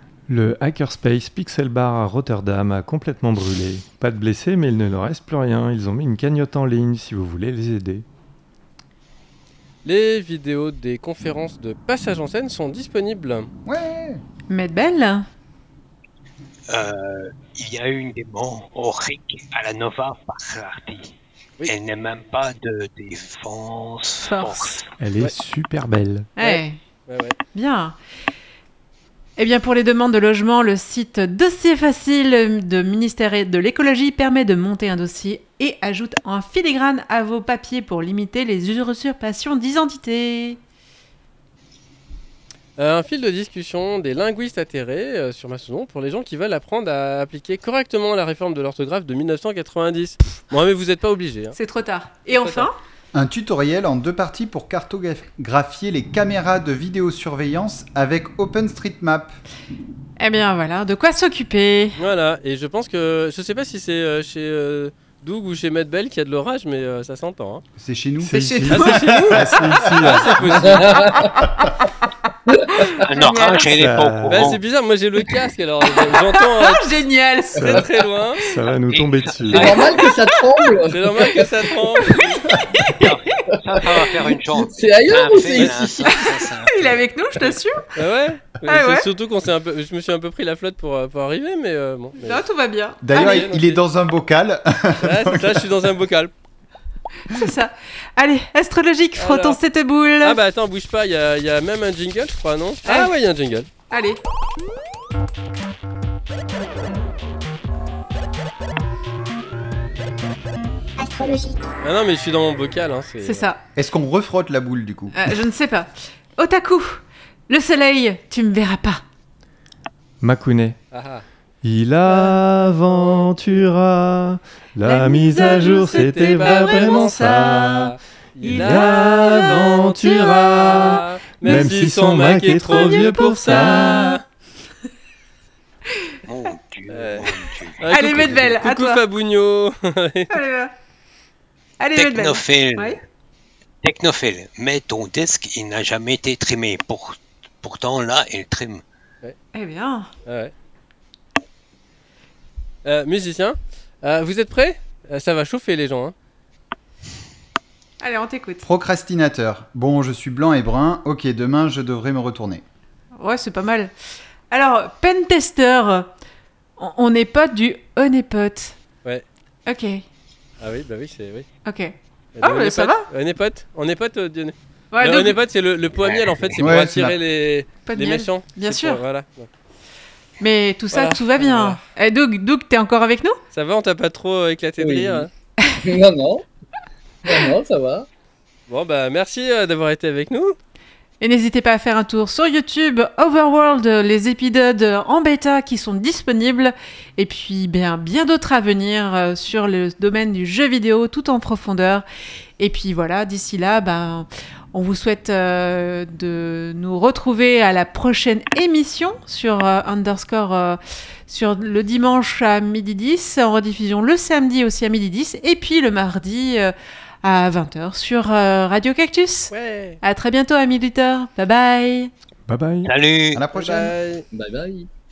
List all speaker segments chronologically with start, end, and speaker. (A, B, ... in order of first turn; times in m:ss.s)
0:00.3-0:08.0 A
0:09.8-0:13.5 B
0:13.6-0:14.2 C
0:14.5-0:15.3 D
0:16.7-0:21.1 E
0:21.7-0:24.9 E
0:24.2-0:24.8 D
0:25.0-0:26.3 A
0:26.4-0:26.8 D
0:26.4-0:27.4 B
0:27.5-0:28.0 D
0:29.4-0:40.6 D
0:42.8-0:51.6 B
0:51.6-0:52.8 D
0:52.3-0:52.7 B
0:53.1-0:59.4 C
1:00.2-1:02.0 D
1:02.0-1:07.6 B
1:07.8-1:10.8 C
1:08.3-1:10.1 D
1:08.7-1:10.9 B
1:09.5-1:10.5 A
1:10.6-1:11.4 F
1:12.5-1:12.8 F
1:12.8-1:13.7 D
1:12.9-1:14.6 E
1:13.8-1:14.6 A
1:14.3-1:16.9 B
1:16.0-1:17.9 D
1:17.6-1:17.9 A
1:17.6-1:18.5 B
1:18.5-1:19.8 A
1:18.9-1:20.0 E
1:19.5-1:21.6 F
1:20.0-1:20.3 D
1:20.9-1:22.4 B
1:22.0-1:23.4 D
1:22.7-1:27.5 E
1:23.5-1:26.3 F
1:26.0-1:27.9 D
1:28.0-1:32.4 B
1:28.6-1:29.1 D
1:32.2-1:33.5 D
1:33.0-1:35.7 C
1:33.1-1:33.8 B
1:35.0-1:36.3 B
1:37.3-1:40.4 D
1:39.2-1:39.6 B
1:40.2-1:43.7 B
1:42.9-1:43.1 D
1:43.9-1:44.2 D
1:51.2-1:51.4 D
1:51.8-1:53.5 B
1:53.2-1:53.6 D
1:53.8-1:55.3 C
1:55.2-1:59.0 D
2:00.2-2:00.8 A
2:00.9-2:01.2 B
2:01.6-2:14.2 A
2:02.1-2:02.4 B
2:04.8-2:07.7 D
2:05.6-2:14.2 B
2:08.4-2:11.0 D
2:12.7-2:14.2 D
2:16.3-2:18.0 E
2:16.9-2:20.4 B
2:17.9-2:19.0 D
2:20.3-2:20.7 D
2:21.8-2:23.0 D
2:22.0-2:23.0 E
2:23.8-2:28.8 E
2:29.5-2:30.1 D
2:30.3-2:30.5 B
2:32.8-2:36.2 B
2:38.0-2:38.6 D
2:38.6-2:42.6 C
2:43.2-2:43.9 D
2:44.5-2:46.1 D
2:46.8-2:48.8 D
2:49.7-2:50.0 D
2:50.6-2:51.5 B
2:51.6-2:53.1 D
2:52.4-2:59.5 B
2:54.9-2:55.4 D
2:56.6-2:57.2 C
2:57.9-2:59.0 D
3:00.4-3:03.4 D
3:00.9-3:01.8 B
3:03.5-3:05.3 B
3:04.8-3:05.3 F
3:05.8-3:06.5 F
3:07.3-3:08.1 F
3:08.7-3:10.6 B
3:11.2-3:22.0 D
3:22.6-3:42.1 D
3:39.5-3:40.0 B
3:42.5-3:42.9 A
3:42.8-3:43.4 E
3:43.3-3:44.0 C
3:43.5-3:44.3 B
3:44.3-3:44.9 F